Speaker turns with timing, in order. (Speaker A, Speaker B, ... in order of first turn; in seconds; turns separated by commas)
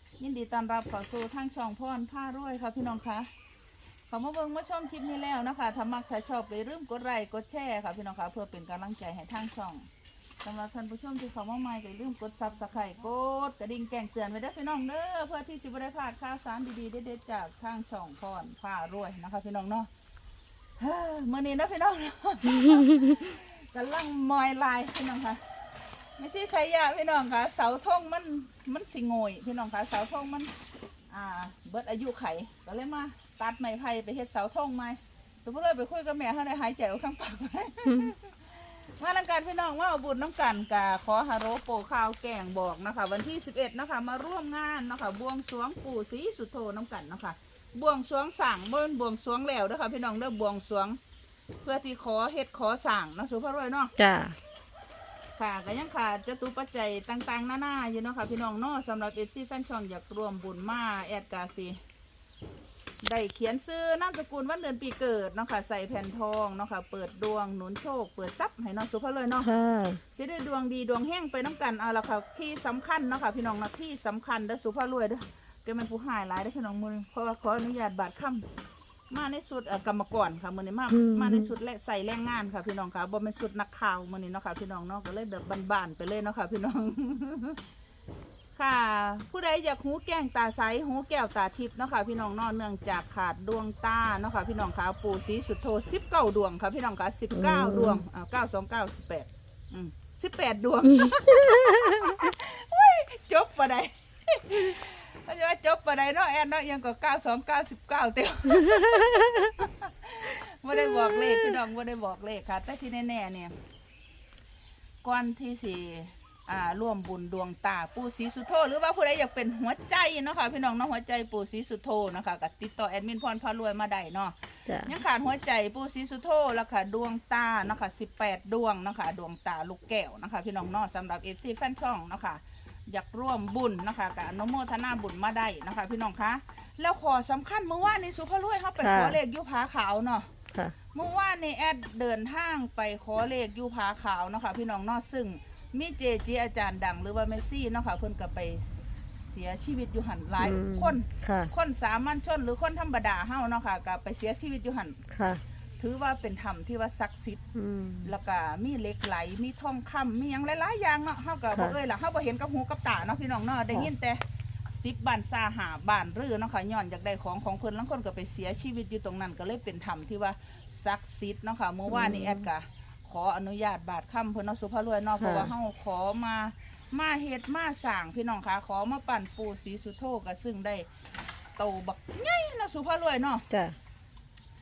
Speaker A: 0.2-3.3, Speaker A: 4.1-9.9, Speaker A: 10.4-19.9, Speaker A: 20.8-25.4, Speaker A: 26.2-30.5, Speaker A: 31.1-51.0, Speaker A: 51.6-53.9, Speaker B: 54.0-54.3, Speaker A: 55.4-61.8, Speaker A: 63.0-69.5, Speaker B: 69.4-70.0, Speaker A: 70.1-78.5, Speaker A: 79.1-87.6, Speaker B: 80.9-81.5, Speaker A: 88.5-113.5, Speaker B: 97.3-98.0, Speaker B: 110.7-111.3, Speaker A: 115.0-140.3, Speaker B: 138.8-139.2, Speaker A: 140.9-155.0, Speaker B: 150.4-151.5, Speaker B: 155.1-155.4, Speaker A: 155.8-157.4, Speaker B: 157.5-158.1, Speaker A: 158.0-180.9, Speaker B: 171.9-172.4, Speaker B: 175.2-175.5, Speaker A: 181.6-183.4, Speaker B: 183.5-183.8